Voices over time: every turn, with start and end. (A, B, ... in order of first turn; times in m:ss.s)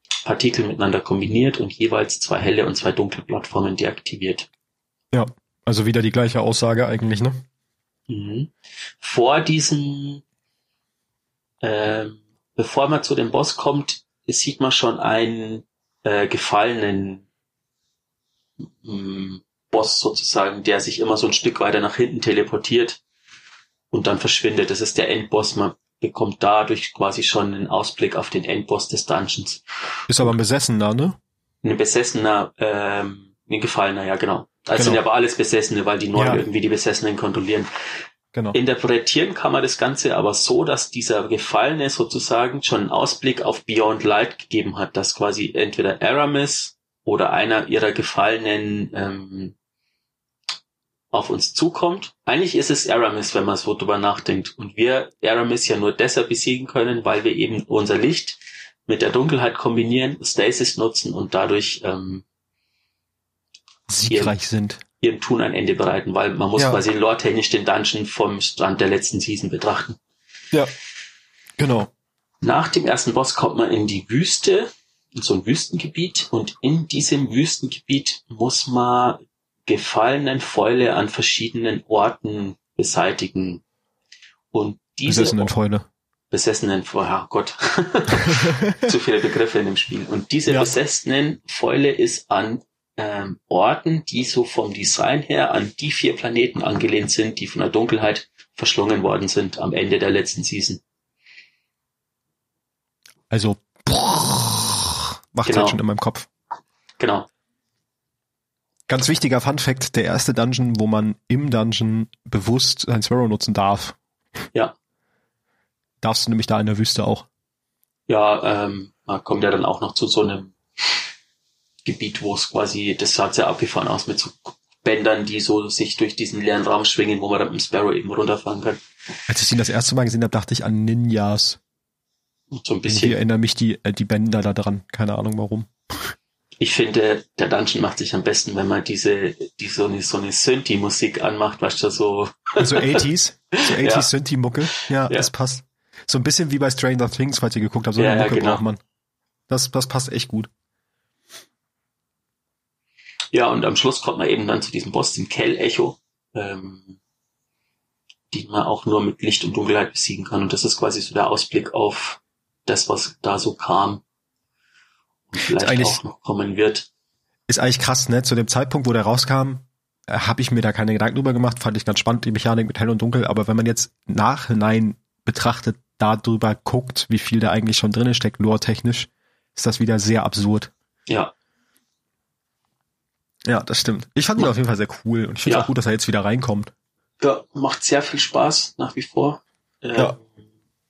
0:00.2-0:04.5 A
0:05.1-0:07.4 B
0:08.1-0:10.2 A
0:11.6-0:17.2 A
0:18.6-0:23.0 A
0:23.9-0:29.6 A
0:30.1-0:31.2 B
0:31.6-0:37.7 A
0:34.7-0:35.0 B
0:36.1-0:36.4 B
0:38.5-0:49.6 A
0:51.1-1:02.2 A
1:03.9-1:04.8 B
1:04.1-1:04.4 A
1:05.0-1:10.0 A
1:11.6-1:11.9 B
1:12.4-1:23.6 A
1:24.5-1:25.5 A
1:25.1-1:25.9 B
1:26.3-1:40.8 A
1:28.2-1:28.8 B
1:43.3-1:46.3 B
1:45.4-1:45.8 A
1:47.0-1:47.3 A
1:48.9-1:54.0 B
1:56.0-1:57.3 B
1:58.1-2:00.6 A
2:01.8-2:08.8 A
2:09.3-2:11.6 B
2:12.5-2:13.2 A
2:12.9-2:16.1 B
2:16.6-2:23.0 A
2:22.6-2:28.8 B
2:23.6-2:24.1 A
2:28.0-2:28.6 A
2:29.5-2:30.5 B
2:33.3-2:37.0 A
2:38.3-2:44.0 A
2:45.3-2:46.9 A
2:45.5-2:46.0 B
2:47.5-3:00.7 B
3:01.1-3:01.3 A
3:03.4-3:06.7 B
3:07.2-3:10.2 A